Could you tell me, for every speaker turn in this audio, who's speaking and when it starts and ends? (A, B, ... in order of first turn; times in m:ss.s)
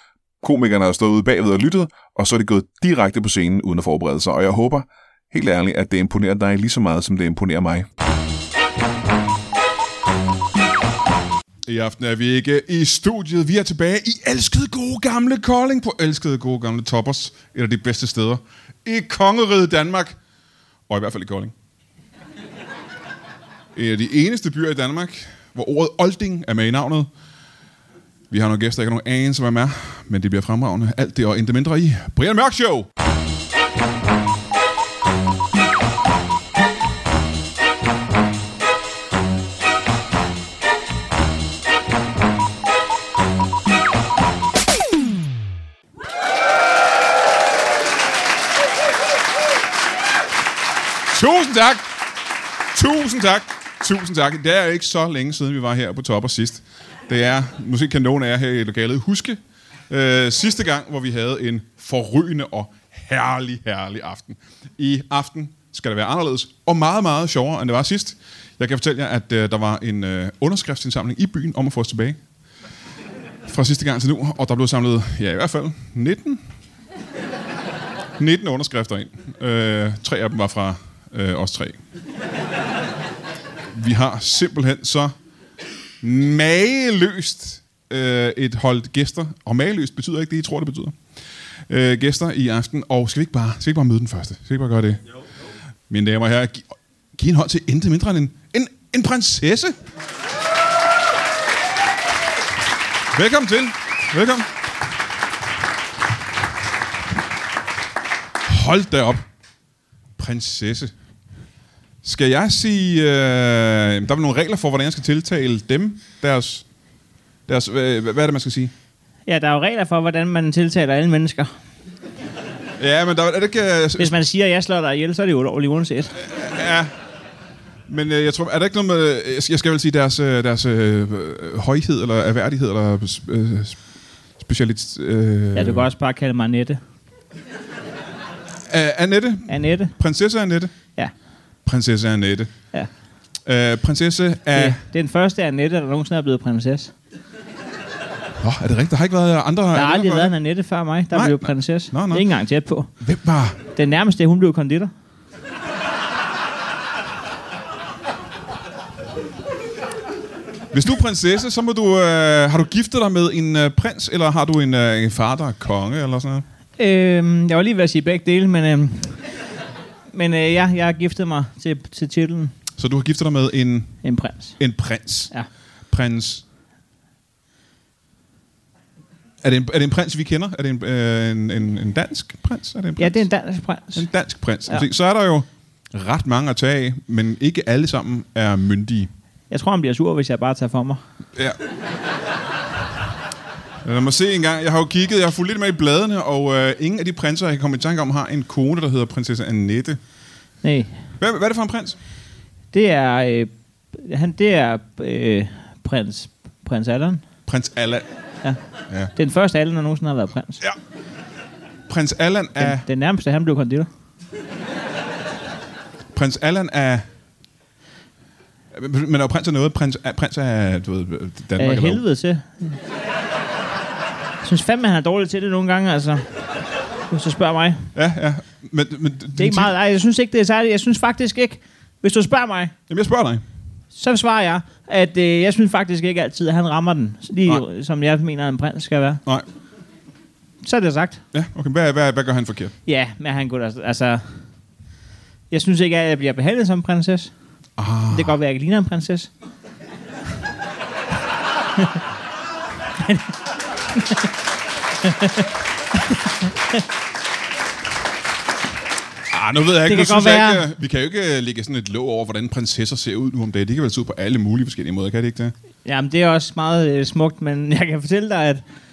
0:00.4-0:07.9 A
0:11.7-0:20.2 B
0:20.9-0:21.5 B
0:23.7-0:27.1 B
0:28.3-0:32.9 B
0:51.1-0:51.9 B
0:52.7-1:12.2 B
1:13.4-1:16.4 B
1:18.2-1:21.8 B
1:23.7-1:25.1 B
1:26.0-1:31.0 B
1:31.7-1:35.0 B
1:35.9-1:39.8 B
1:43.1-1:44.5 B
1:48.4-1:49.2 B
1:50.2-1:50.9 B
1:52.0-1:56.6 B
1:57.5-1:58.7 B
1:59.3-2:01.5 C
2:02.8-2:04.2 B
2:04.0-2:06.2 C
2:06.2-2:06.9 B
2:07.9-2:13.8 B
2:14.4-2:15.9 B
2:15.6-2:16.8 C
2:18.7-2:20.7 B
2:19.5-2:20.0 C
2:21.6-2:22.5 B
2:23.4-2:24.8 B
2:24.5-2:26.9 C
2:28.4-2:30.4 B
2:29.7-2:32.9 C
2:31.1-2:32.3 B
2:33.0-2:33.6 B
2:33.7-2:34.9 C
2:40.7-2:46.4 B
2:46.8-2:49.2 C
2:50.1-2:52.5 C
2:52.8-2:54.0 B
2:54.0-2:54.6 C
2:54.6-2:55.3 B
2:55.9-2:56.4 B
2:59.4-3:03.3 B
3:03.0-3:04.1 C
3:04.0-3:09.1 B
3:09.5-3:11.0 C
3:13.8-3:20.0 B
3:20.6-3:21.0 C
3:21.2-3:22.0 B
3:22.7-3:27.2 C
3:27.5-3:28.1 B
3:29.1-3:30.6 C
3:31.9-3:32.8 B
3:32.6-3:33.9 C
3:36.1-3:37.0 B
3:38.7-3:42.0 B
3:41.6-3:42.8 C
3:44.4-3:46.2 C
3:47.1-3:47.9 C
3:48.0-3:49.7 B
3:49.4-3:52.7 C
3:52.9-3:53.4 B
3:53.9-3:59.2 C
4:00.6-4:01.2 C
4:01.3-4:02.7 B
4:02.9-4:04.4 C
4:05.5-4:07.3 C
4:07.8-4:08.4 B
4:08.1-4:09.3 C
4:13.0-4:13.4 C
4:13.9-4:14.3 C
4:15.0-4:15.5 C
4:16.1-4:16.8 C
4:19.3-4:25.5 B
4:19.8-4:20.6 C
4:25.8-4:28.6 C